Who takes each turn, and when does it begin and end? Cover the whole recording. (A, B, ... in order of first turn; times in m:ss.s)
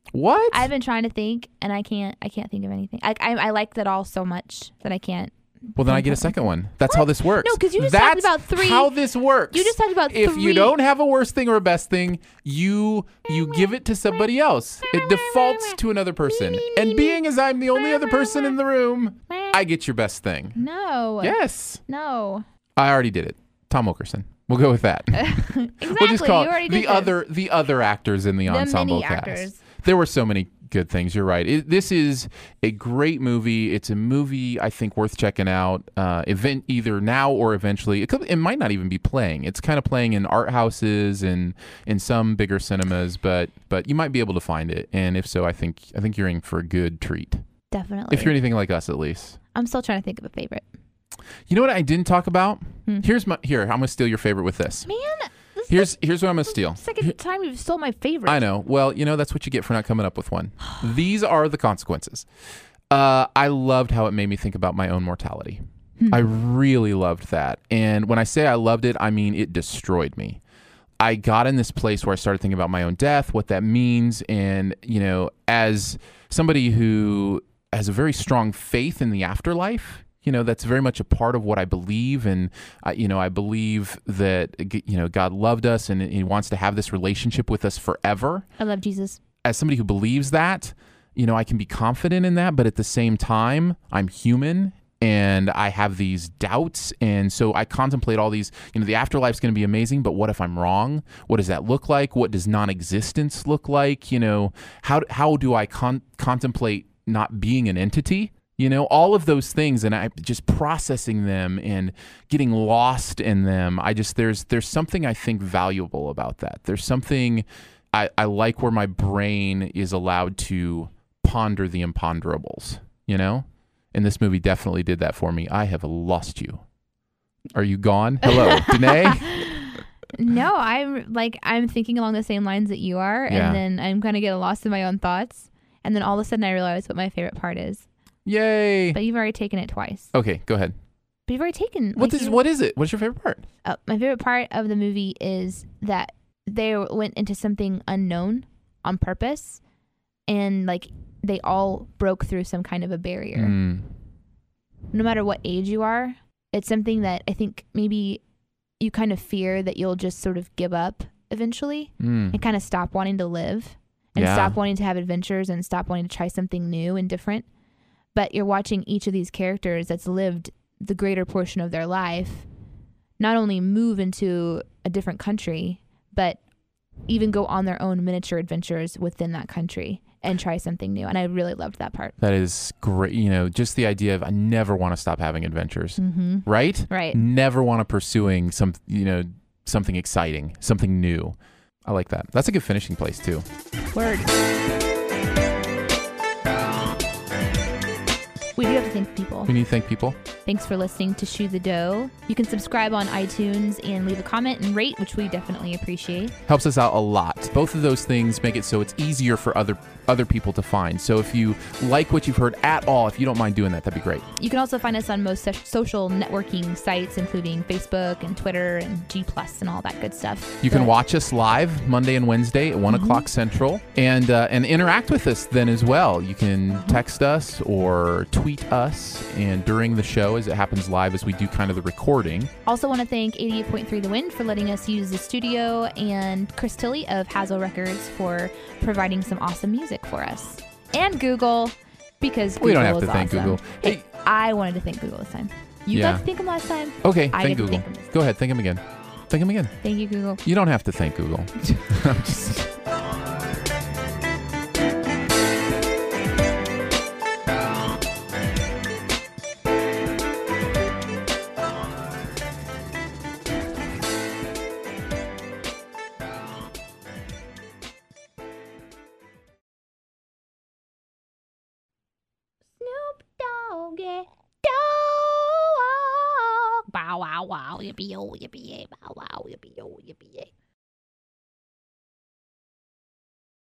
0:00.1-0:00.7 A
0:00.5-0:08.9 B
0:05.8-0:20.6 A
0:09.5-0:10.8 B
0:14.9-0:17.2 B
0:17.7-0:18.6 B
0:19.3-0:19.6 B
0:20.6-0:22.4 B
0:21.2-0:21.8 A
0:22.8-0:47.4 A
0:25.1-0:27.2 B
0:28.5-0:29.6 B
0:47.7-0:48.3 B
0:48.1-0:49.4 A
0:49.5-0:50.6 B
0:51.5-0:54.9 A
0:54.9-0:55.9 B
0:55.7-0:57.1 A
0:56.5-0:58.4 B
0:58.3-1:02.3 A
1:02.9-1:10.4 A
1:06.0-1:06.2 B
1:11.0-1:28.5 A
1:28.6-1:29.2 B
1:29.4-2:06.6 A
2:07.6-2:09.4 A
2:08.2-2:17.9 B
2:13.3-2:13.6 A
2:18.3-2:19.0 A
2:18.9-2:20.1 B
2:20.1-2:20.8 A
2:21.3-2:22.4 B
2:22.0-2:23.4 A
2:23.6-2:29.6 B
2:30.3-2:33.6 B
2:33.4-2:33.9 A
2:34.9-2:38.2 B
2:38.8-2:47.5 B
2:42.0-2:42.4 A
2:44.2-2:44.6 A
2:48.2-2:52.5 B
2:53.2-2:56.4 B
2:57.1-3:02.2 B
3:02.2-3:13.5 A
3:06.0-3:07.2 B
3:13.9-3:14.3 B
3:18.6-3:19.5 B
3:19.5-3:20.2 A
3:20.4-3:26.4 B
3:26.5-3:34.3 A
3:34.4-3:40.9 B
3:40.6-3:52.5 A
3:42.9-3:43.3 B
3:46.7-3:47.0 B
3:52.6-4:08.1 B
4:02.6-4:04.0 A
4:05.9-4:06.2 A
4:07.0-4:09.8 A
4:09.8-4:10.4 B
4:10.4-4:12.7 A
4:32.8-4:40.5 B